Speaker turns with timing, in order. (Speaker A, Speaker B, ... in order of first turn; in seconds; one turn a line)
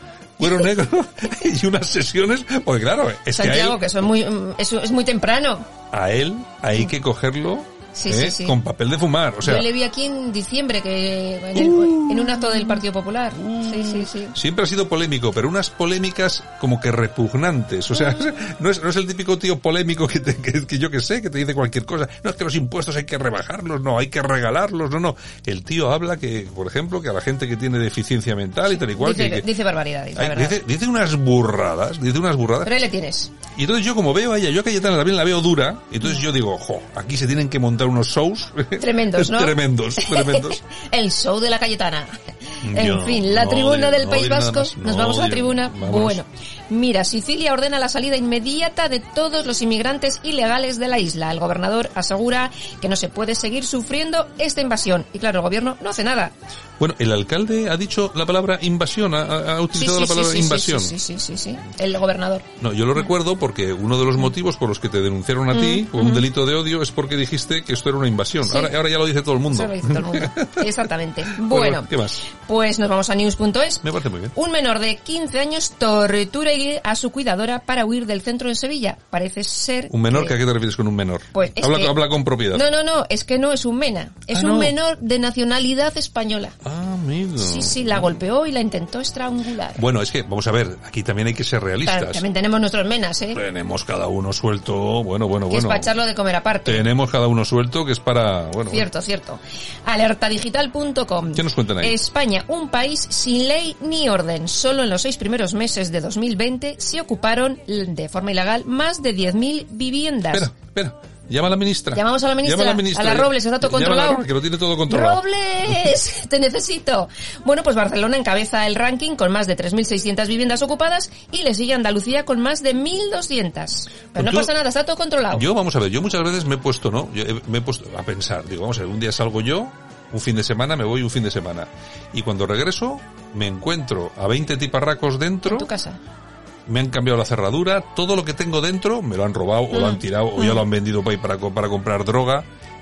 Speaker A: 0.4-3.9
Speaker B: 3.3-5.7
Speaker A: 5.9-9.7
Speaker B: 8.0-8.6
Speaker B: 9.4-14.4
Speaker A: 11.6-12.8
Speaker A: 13.4-29.5
Speaker B: 17.9-18.2
Speaker B: 28.7-30.6
Speaker A: 30.2-32.7
Speaker B: 32.6-33.3
Speaker A: 33.5-40.6
Speaker B: 38.8-56.3
Speaker A: 42.6-46.2
Speaker A: 56.8-60.9
Speaker B: 59.7-62.5
Speaker A: 62.6-70.7
Speaker B: 65.5-66.3
Speaker B: 68.4-68.7
Speaker B: 69.5-80.4
Speaker A: 71.4-72.2
Speaker A: 73.8-74.3
Speaker A: 79.9-82.6
Speaker B: 81.3-86.6
Speaker A: 84.3-84.8
Speaker A: 86.7-88.2
Speaker B: 87.4-89.8
Speaker A: 89.8-92.2
Speaker B: 91.8-93.4
Speaker A: 93.3-95.9
Speaker B: 95.5-96.8
Speaker A: 96.7-98.9
Speaker B: 98.7-110.5
Speaker A: 101.4-102.0
Speaker A: 110.3-115.2
Speaker B: 111.9-114.3
Speaker B: 114.9-125.5
Speaker A: 124.1-124.5
Speaker A: 125.3-135.7
Speaker B: 135.4-136.0
Speaker A: 136.7-142.5
Speaker B: 139.7-140.6